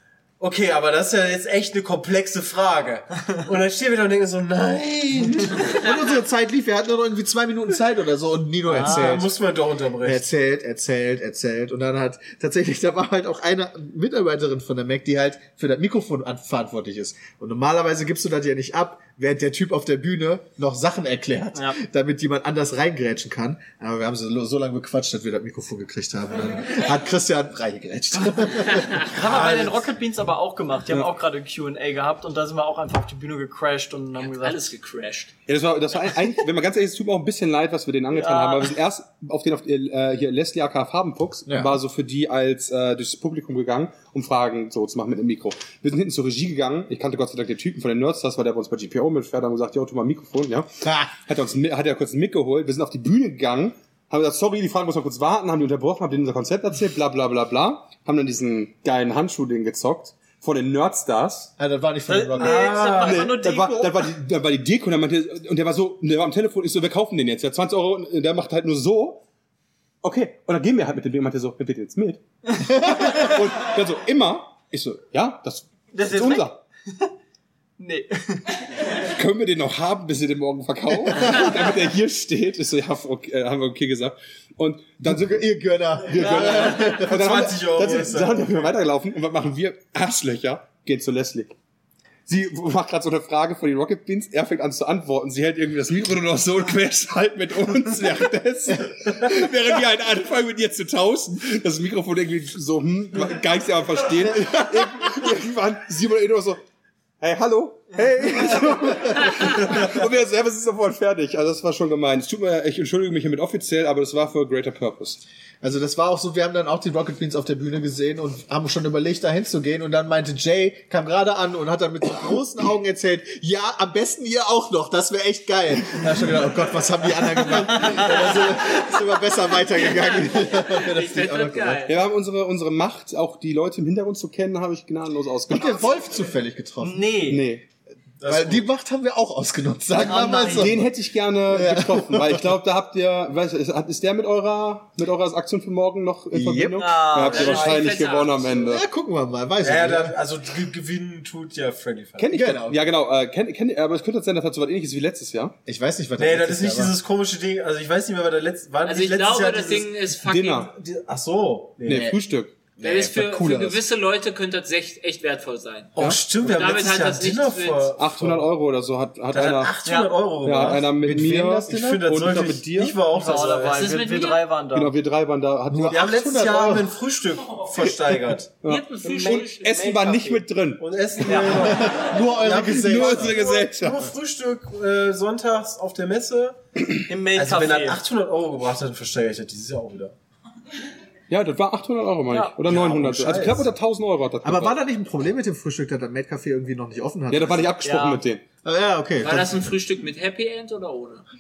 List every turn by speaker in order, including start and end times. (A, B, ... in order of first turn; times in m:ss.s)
0:00.4-0:05.8 A
0:05.6-0:09.3 B
0:08.7-0:10.2 A
0:08.7-0:09.2 C
0:10.0-0:29.0 B
0:29.0-0:34.7 C
0:29.2-0:29.8 A
0:34.2-0:35.3 D
0:35.5-0:50.7 E
0:38.1-0:38.7 C
0:41.5-0:41.8 B
0:50.8-0:51.1 B
0:51.3-1:01.5 E
1:01.6-1:02.9 B
1:02.1-1:04.1 C
1:02.4-1:03.4 A
1:03.0-1:09.2 E
1:10.0-1:16.6 E
1:15.9-1:17.1 C
1:17.8-1:18.5 C
1:19.1-1:25.4 E
1:21.1-1:21.4 B
1:25.0-1:27.2 B
1:26.1-1:31.5 E
1:26.2-1:27.0 C
1:27.0-1:28.7 A
1:32.3-1:46.6 E
1:44.4-1:45.1 B
1:47.2-1:55.2 E
1:55.6-2:11.8 B
2:09.8-2:12.0 D
2:11.9-2:15.9 E
2:15.5-2:17.2 B
2:16.8-2:17.5 C
2:17.3-2:17.6 E
2:18.2-2:18.6 A
2:18.2-2:20.9 B
2:20.0-2:20.8 C
2:20.0-2:28.8 E
2:21.5-2:22.6 B
2:26.3-2:27.0 B
2:26.8-2:28.0 C
2:27.1-2:28.6 D
2:28.7-2:30.2 B
2:29.6-2:32.3 A
2:32.2-2:35.6 E
2:32.3-2:32.8 B
2:35.7-2:37.0 B
2:36.2-2:39.9 A
2:38.8-2:40.6 D
2:40.2-2:40.7 E
2:40.6-2:42.1 A
2:41.9-2:42.6 E
2:41.9-2:42.2 B
2:42.8-2:43.7 B
2:42.8-2:47.9 D
2:46.0-2:48.5 A
2:46.0-2:46.2 E
2:48.0-2:49.7 E
2:49.3-2:50.9 A
2:49.8-2:50.2 C
2:50.4-2:53.0 E
2:51.0-2:52.1 B
2:51.6-2:53.8 A
2:53.0-2:55.0 C
2:53.6-2:54.5 D
2:54.7-2:56.0 E
2:55.7-2:56.9 B
2:55.9-2:58.5 A
2:58.6-3:00.8 E
2:58.6-2:59.9 D
2:59.0-3:00.5 C
3:00.8-3:06.6 A
3:01.3-3:01.7 C
3:01.3-3:03.4 B
3:02.7-3:04.1 E
3:07.1-3:08.0 C
3:07.3-3:10.1 A
3:11.3-3:14.8 E
3:12.3-3:12.6 C
3:12.6-3:13.7 A
3:14.4-3:17.7 B
3:17.3-3:18.4 E
3:17.8-3:18.2 C
3:18.6-3:19.7 B
3:19.2-3:21.3 D